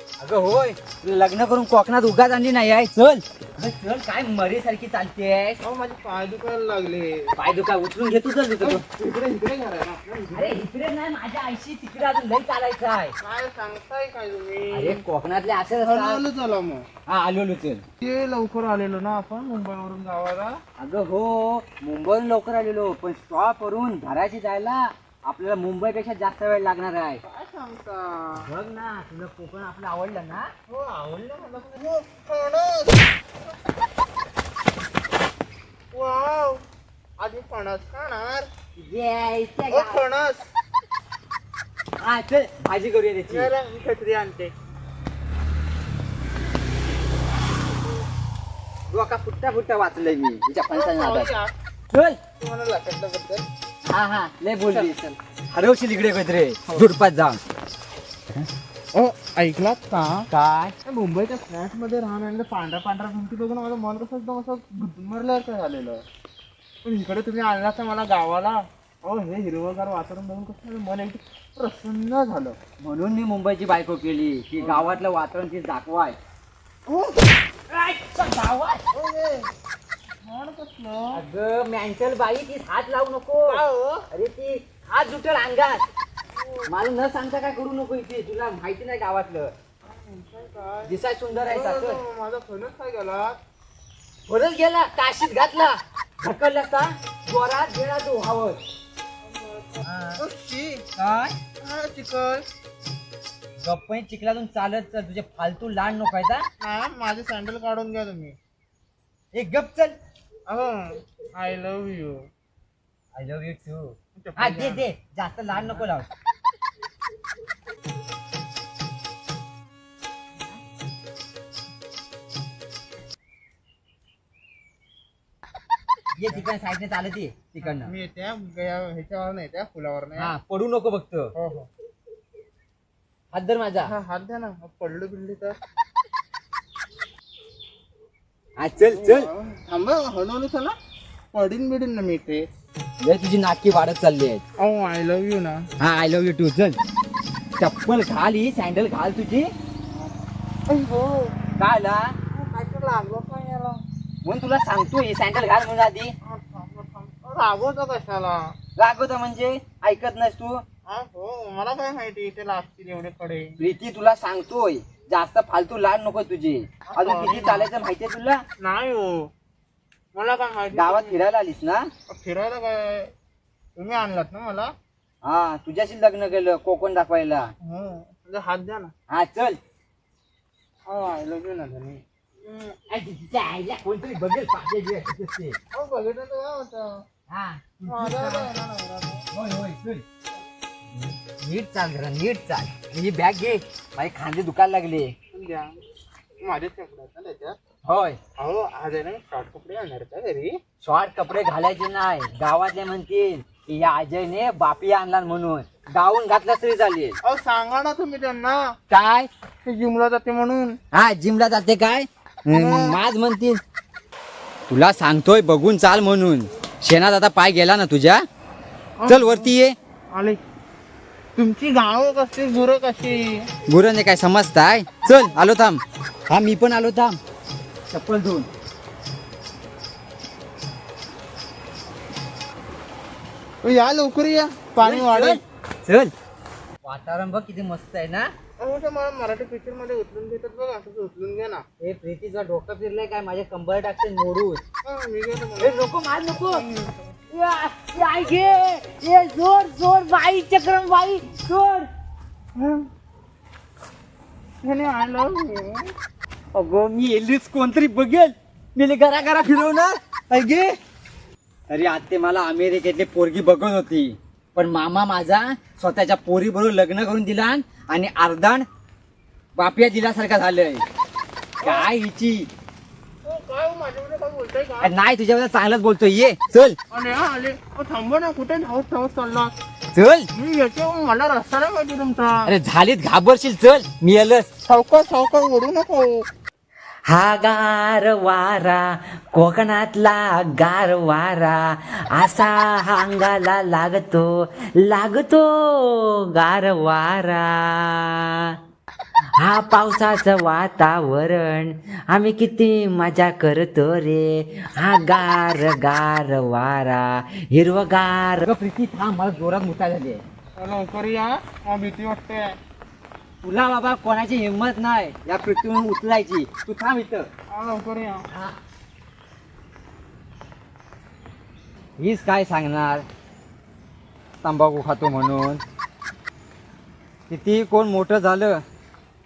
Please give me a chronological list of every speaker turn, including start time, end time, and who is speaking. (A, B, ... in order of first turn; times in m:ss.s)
0:00.2-0:05.6 A
0:05.6-0:07.3 B
0:07.4-0:08.8 A
0:08.6-0:10.6 B
0:10.3-0:13.1 A
0:13.2-0:15.0 B
0:14.7-0:16.2 A
0:15.8-0:16.8 B
0:17.1-0:17.8 A
0:18.0-0:20.6 B
0:20.8-0:27.2 A
0:27.2-0:28.4 B
0:28.4-0:30.5 A
0:30.7-0:33.1 B
0:35.9-0:36.6 B
0:37.2-0:38.5 B
0:38.8-0:40.0 A
0:39.7-0:40.4 B
0:42.0-0:43.5 A
0:43.3-0:44.5 B
0:48.9-0:51.3 A
0:50.7-0:51.5 B
0:51.9-0:52.2 A
0:52.4-0:53.4 B
0:53.8-0:55.0 A
0:54.6-0:55.1 B
0:55.5-0:57.4 A
0:58.9-1:00.3 B
1:00.3-1:00.7 A
1:00.8-1:06.0 B
1:06.8-1:12.6 B
1:12.8-1:16.2 A
1:14.6-1:15.0 B
1:16.8-1:17.2 B
1:17.7-1:18.8 A
1:18.9-1:19.5 B
1:20.2-1:21.2 B
1:21.1-1:23.6 A
1:23.4-1:24.0 B
1:24.1-1:25.8 A
1:26.4-1:26.7 B
1:26.7-1:29.5 A
1:29.8-1:33.4 B
1:30.9-1:32.0 A
1:34.3-1:38.6 A
1:39.2-1:40.8 B
1:39.8-1:40.2 A
1:41.0-1:41.4 A
1:41.6-1:42.4 B
1:43.6-1:46.4 A
1:46.6-1:48.4 B
1:49.3-1:50.0 A
1:50.5-1:52.2 B
1:53.1-1:56.1 A
1:54.2-1:54.9 B
2:06.2-2:07.9 A
2:07.6-2:10.3 B
2:10.2-2:11.3 A
2:11.3-2:11.7 B
2:13.3-2:13.9 A
2:13.8-2:15.6 B
2:18.6-2:19.3 A
2:18.9-2:20.8 B
2:21.3-2:22.4 B
2:23.0-2:24.4 A
2:24.6-2:25.7 B
2:25.8-2:26.8 A
2:27.6-2:29.5 A
2:30.7-2:31.3 B
2:31.6-2:32.1 A
2:32.3-2:33.8 B
2:34.2-2:36.1 A
2:36.2-2:38.5 B
2:38.8-2:40.6 A
2:40.9-2:43.5 B
2:43.6-2:48.4 A
2:46.9-2:47.7 B
2:48.6-2:49.3 B
2:50.1-2:51.2 B
2:50.7-2:51.9 A
2:52.1-2:53.1 B
2:53.8-2:54.7 B
2:55.2-2:57.5 A
2:57.6-2:58.9 B
2:59.1-2:59.6 A
3:00.9-3:02.8 B
3:02.9-3:05.6 A
3:05.7-3:07.0 B
3:07.3-3:08.5 A
3:07.8-3:09.2 B
3:09.3-3:10.0 A
3:10.9-3:15.1 A
3:15.3-3:15.8 B
3:16.4-3:17.6 B
3:17.8-3:18.2 A
3:18.4-3:20.6 B
3:20.8-3:27.2 A
3:27.2-3:28.8 B
3:28.9-3:29.3 A
3:29.6-3:30.8 B
3:30.9-3:33.6 A
3:32.5-3:33.0 B
3:34.7-3:38.2 A
3:39.0-3:39.5 B
3:39.1-3:39.7 A
3:40.1-3:40.4 B
3:41.4-3:43.5 B
3:43.7-3:47.2 A
3:47.9-3:48.5 A
3:53.6-3:55.4 B
3:54.8-3:56.1 A
3:56.8-3:58.3 A
3:58.6-4:01.6 B
4:01.8-4:04.6 A
4:04.8-4:05.8 B
4:05.6-4:06.6 A
4:06.5-4:07.1 B
4:07.3-4:11.9 A
4:12.6-4:12.9 B
4:14.6-4:15.9 B
4:16.5-4:20.8 A
4:21.7-4:28.6 A
4:29.6-4:30.8 A
4:31.6-4:32.5 A
4:31.6-4:31.9 B
4:33.2-4:34.9 B
4:34.8-4:36.8 A
4:36.9-4:39.5 B
4:39.9-4:40.3 A
4:40.3-4:42.5 B
4:42.4-4:44.5 A
4:44.6-4:46.2 B
4:47.1-4:58.5 C
4:59.4-5:08.4 C
5:08.4-5:10.2 A
5:10.6-5:12.6 B
5:13.4-5:17.3 A
5:17.5-5:18.2 B
5:18.3-5:18.6 A
5:22.0-5:23.0 A
5:24.4-5:25.6 A
5:27.3-5:28.6 A